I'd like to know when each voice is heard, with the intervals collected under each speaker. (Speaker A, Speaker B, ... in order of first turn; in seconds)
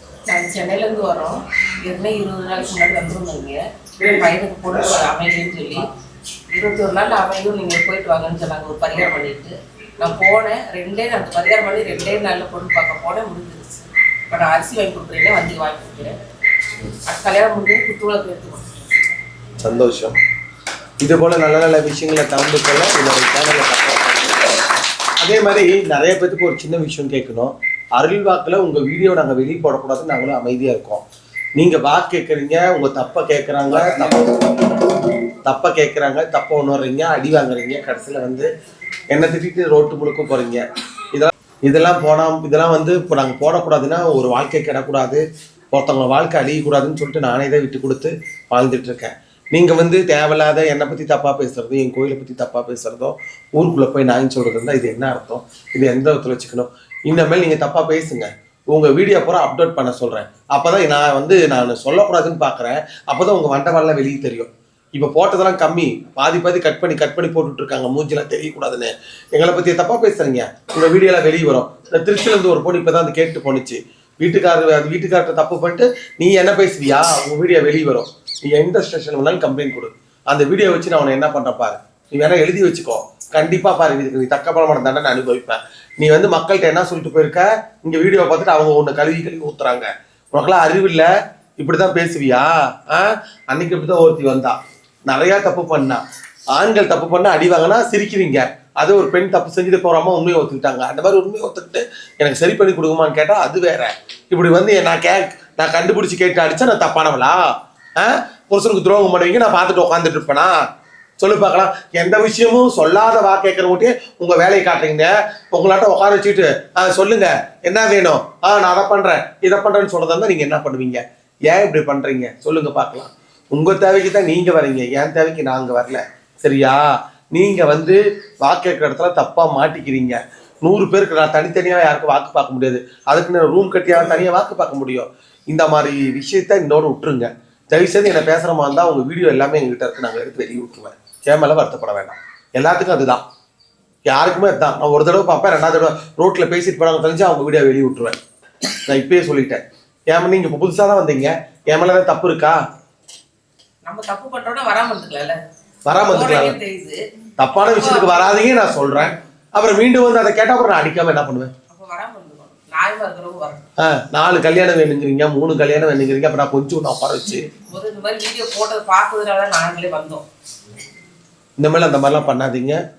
Speaker A: 0.3-5.8, 6.5-16.1, 17.1-18.9, 153.8-155.4, 156.0-157.0, 157.6-159.2, 161.7-163.7, 167.6-170.2
Speaker B: 19.6-20.2, 21.0-24.6, 25.2-31.0, 31.6-34.4, 35.5-38.5, 39.1-40.6, 41.1-94.6, 95.1-96.0, 96.5-107.4, 108.0-110.6, 111.2-143.2, 144.1-148.2, 148.9-152.6, 155.9-156.6, 157.4-161.5, 163.8-167.5, 171.6-172.8